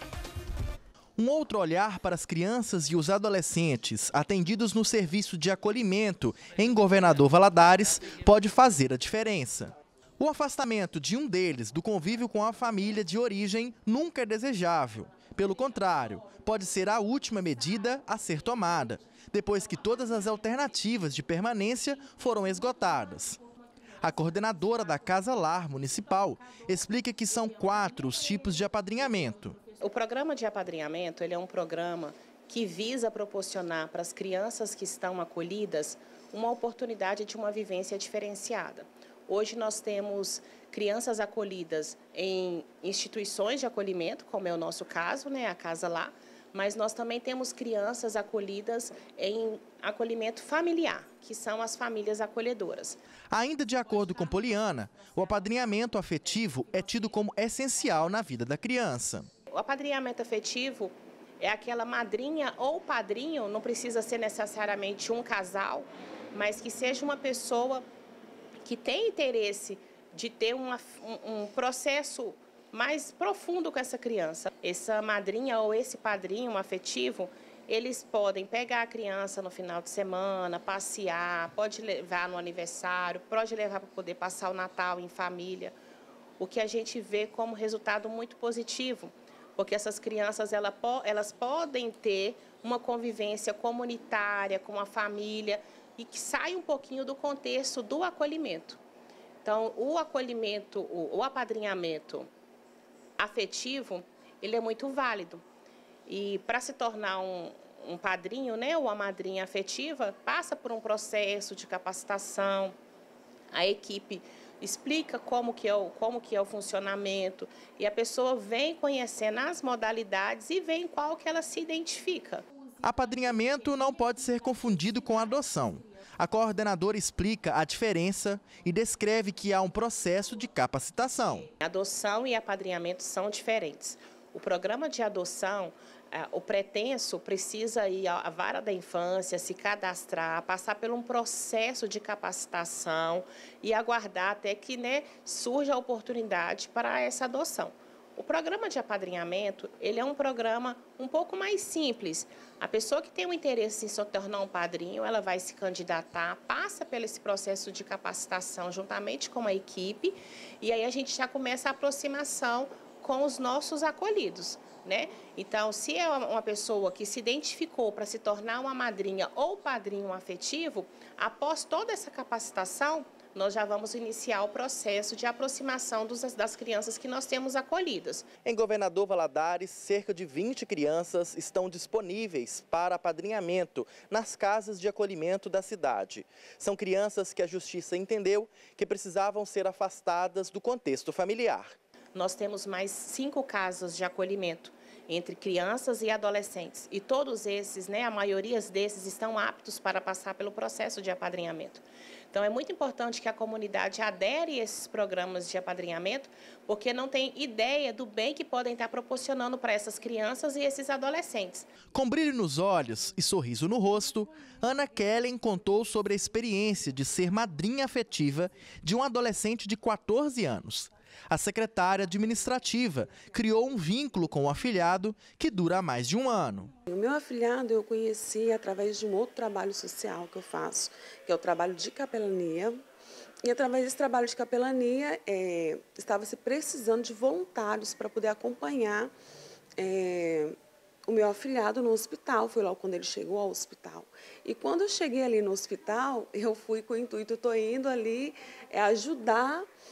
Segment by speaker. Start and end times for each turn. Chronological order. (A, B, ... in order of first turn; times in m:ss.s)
0:01.2-0:23.4 A
0:24.0-0:29.6 A
0:29.8-0:53.0 B
0:53.3-0:59.3 A
0:59.5-1:07.8 B
1:08.6-1:25.8 B
1:26.4-1:38.8 B
1:39.4-1:42.3 B
1:43.2-1:45.4 B
1:46.1-1:52.8 B
1:53.5-2:02.4 B
2:02.8-2:11.5 A
2:11.6-2:58.3 B
2:58.4-3:11.7 A
3:12.1-3:31.7 B
3:31.9-3:46.7 A
3:46.9-3:52.8 C
3:53.4-3:59.1 C
3:59.8-4:00.6 C
4:01.1-4:09.7 C